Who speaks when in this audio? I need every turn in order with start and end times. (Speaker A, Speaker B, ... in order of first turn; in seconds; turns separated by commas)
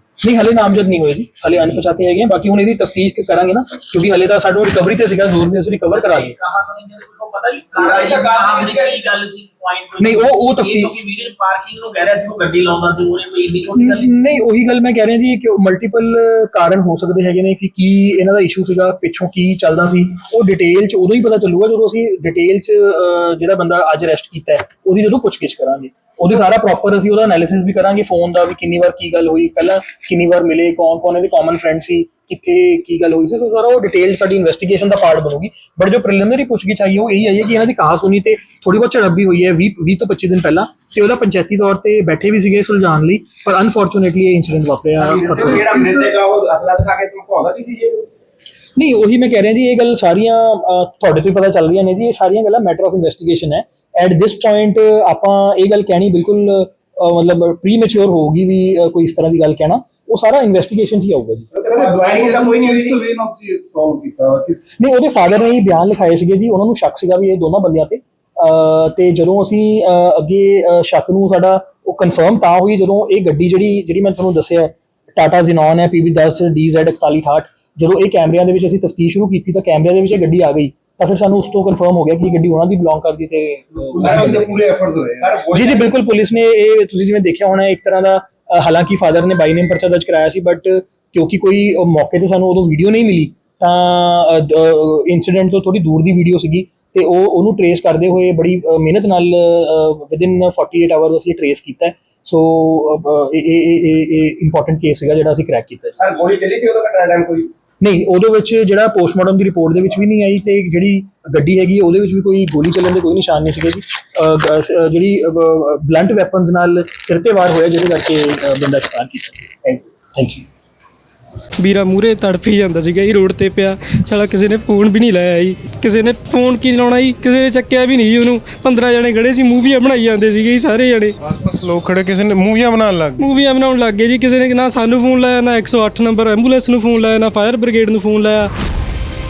Speaker A: 0.2-6.4, Speaker B: 5.9-14.2, Speaker C: 7.8-9.0, Speaker A: 10.0-11.0, Speaker A: 13.7-45.9, Speaker C: 45.0-48.1, Speaker D: 45.7-46.1, Speaker A: 48.8-61.5, Speaker C: 61.5-63.0, Speaker D: 61.6-64.7, Speaker A: 64.8-84.5, Speaker D: 83.9-85.5, Speaker C: 84.0-84.6, Speaker C: 85.2-85.9, Speaker A: 85.5-106.0, Speaker C: 106.0-107.5, Speaker A: 107.8-120.5, Speaker E: 121.6-131.1, Speaker F: 131.2-133.3, Speaker E: 133.2-138.5